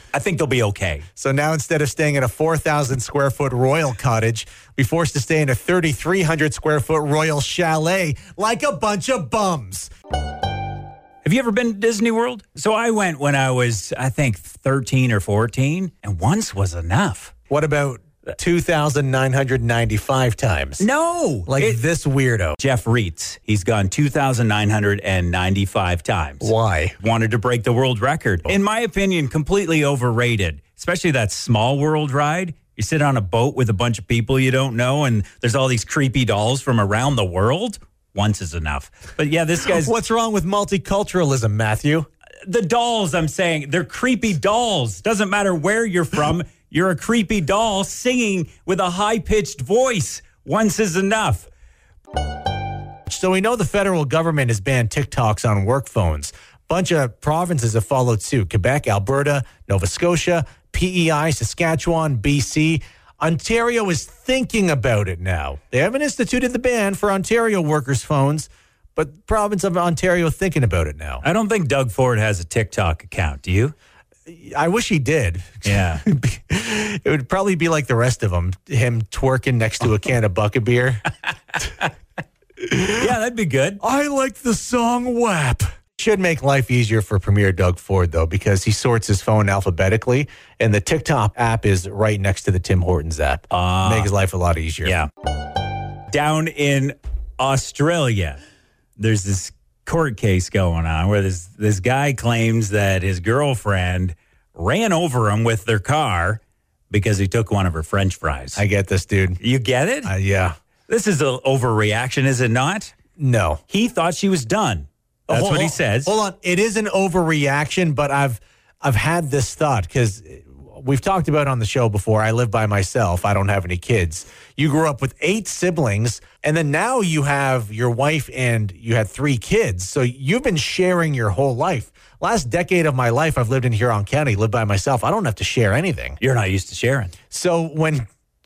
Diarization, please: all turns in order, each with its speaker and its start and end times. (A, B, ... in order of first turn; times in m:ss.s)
0:00.1-0:01.1 A
0:01.2-0:09.9 B
0:11.2-0:17.3 A
0:17.5-0:20.8 B
0:20.8-0:21.8 A
0:21.5-0:22.6 B
0:22.6-0:39.9 A
0:26.4-0:27.0 B
0:39.6-0:42.1 B
0:42.5-0:51.5 A
0:53.1-1:11.2 B
1:11.2-1:13.7 A
1:14.3-1:21.0 B
1:15.6-1:16.0 A
1:22.6-1:23.1 B
1:22.9-1:23.8 A
1:23.8-1:35.0 B
1:33.5-1:34.1 A
1:36.1-1:38.4 A
1:39.0-1:48.6 A
1:48.6-1:49.4 B
1:49.4-1:50.1 A
1:50.1-1:50.6 B
1:50.9-1:53.0 A
1:53.2-1:53.6 B
1:53.7-1:56.1 A
1:55.3-2:16.2 B
2:16.2-2:17.1 A
2:17.3-2:18.1 B